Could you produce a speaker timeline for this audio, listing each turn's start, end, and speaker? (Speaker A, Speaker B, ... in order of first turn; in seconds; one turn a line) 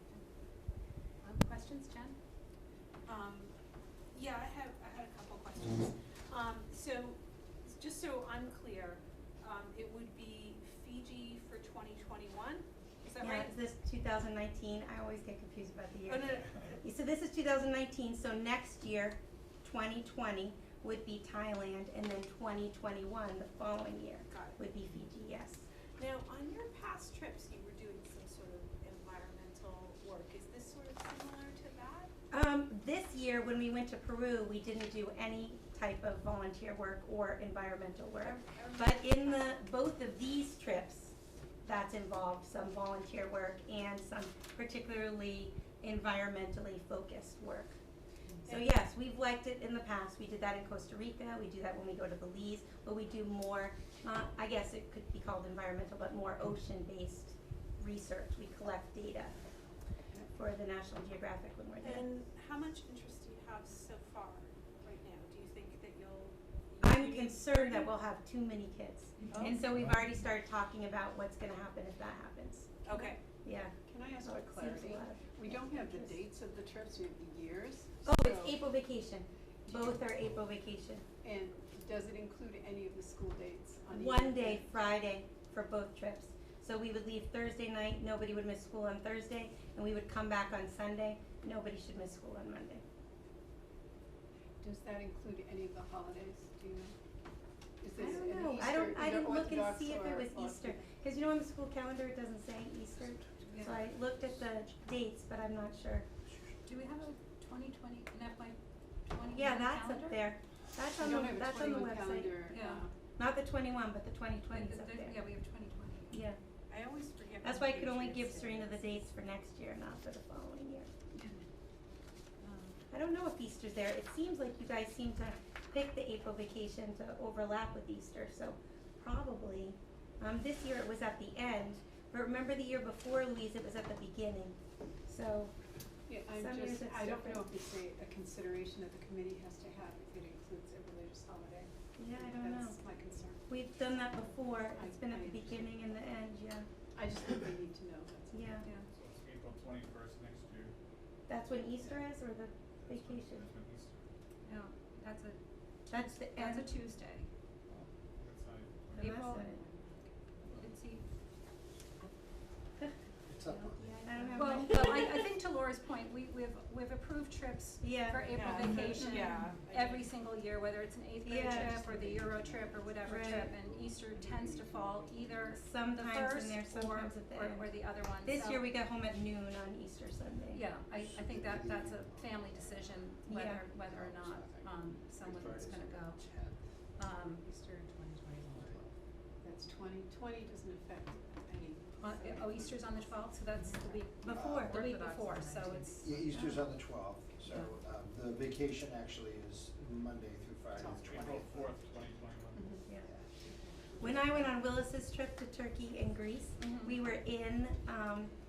Speaker A: 1.2-2.2
Speaker B: 3.1-3.5
Speaker B: 4.1-13.5
Speaker C: 13.2-25.7
Speaker B: 16.1-16.8
Speaker B: 24.3-24.6
Speaker B: 26.0-32.1
Speaker C: 32.3-47.8
Speaker B: 38.2-39.6
Speaker C: 48.5-59.4
Speaker C: 60.3-62.1
Speaker B: 61.8-67.9
Speaker C: 66.8-76.2
Speaker B: 69.3-69.6
Speaker B: 72.8-73.2
Speaker D: 73.9-78.6
Speaker C: 78.0-81.0
Speaker D: 81.2-84.7
Speaker C: 83.9-92.8
Speaker D: 94.6-96.9
Speaker D: 97.8-100.9
Speaker C: 98.0-106.1
Speaker E: 103.1-103.8
Speaker A: 103.5-103.8
Speaker A: 106.7-110.2
Speaker E: 106.7-107.0
Speaker C: 109.3-112.5
Speaker D: 111.0-112.9
Speaker A: 112.5-112.8
Speaker C: 113.2-115.2
Speaker A: 114.5-116.2
Speaker C: 116.1-116.4
Speaker B: 116.7-118.7
Speaker C: 117.4-120.9
Speaker A: 122.4-122.8
Speaker C: 122.9-134.6
Speaker C: 135.1-135.5
Speaker D: 136.1-143.4
Speaker C: 136.3-137.5
Speaker C: 142.0-142.8
Speaker C: 143.5-146.7
Speaker D: 144.7-145.7
Speaker D: 146.9-148.6
Speaker C: 148.3-148.7
Speaker F: 148.9-150.7
Speaker C: 151.3-153.5
Speaker F: 152.8-154.1
Speaker A: 154.4-157.3
Speaker C: 155.9-156.7
Speaker F: 157.8-159.4
Speaker C: 159.0-159.6
Speaker A: 159.0-159.7
Speaker F: 160.4-160.8
Speaker A: 160.6-161.1
Speaker E: 163.2-164.6
Speaker A: 163.5-178.7
Speaker C: 164.0-165.2
Speaker C: 167.8-168.8
Speaker B: 168.3-170.1
Speaker D: 168.9-169.2
Speaker C: 171.3-171.8
Speaker B: 172.2-172.5
Speaker C: 173.0-173.6
Speaker D: 174.8-175.0
Speaker C: 175.6-177.7
Speaker C: 178.2-180.7
Speaker A: 180.5-186.2
Speaker E: 180.9-183.2
Speaker C: 183.3-183.7
Speaker E: 183.7-186.7
Speaker A: 187.0-187.7
Speaker E: 188.4-188.9
Speaker D: 189.4-192.7
Speaker A: 192.0-196.3
Speaker C: 194.2-194.8
Speaker E: 194.3-194.8
Speaker B: 195.0-195.9
Speaker E: 196.0-201.8
Speaker C: 196.3-196.7
Speaker D: 200.8-201.2
Speaker F: 200.8-202.8
Speaker D: 202.6-202.8
Speaker D: 203.4-204.5
Speaker C: 204.0-208.3
Speaker A: 206.6-207.0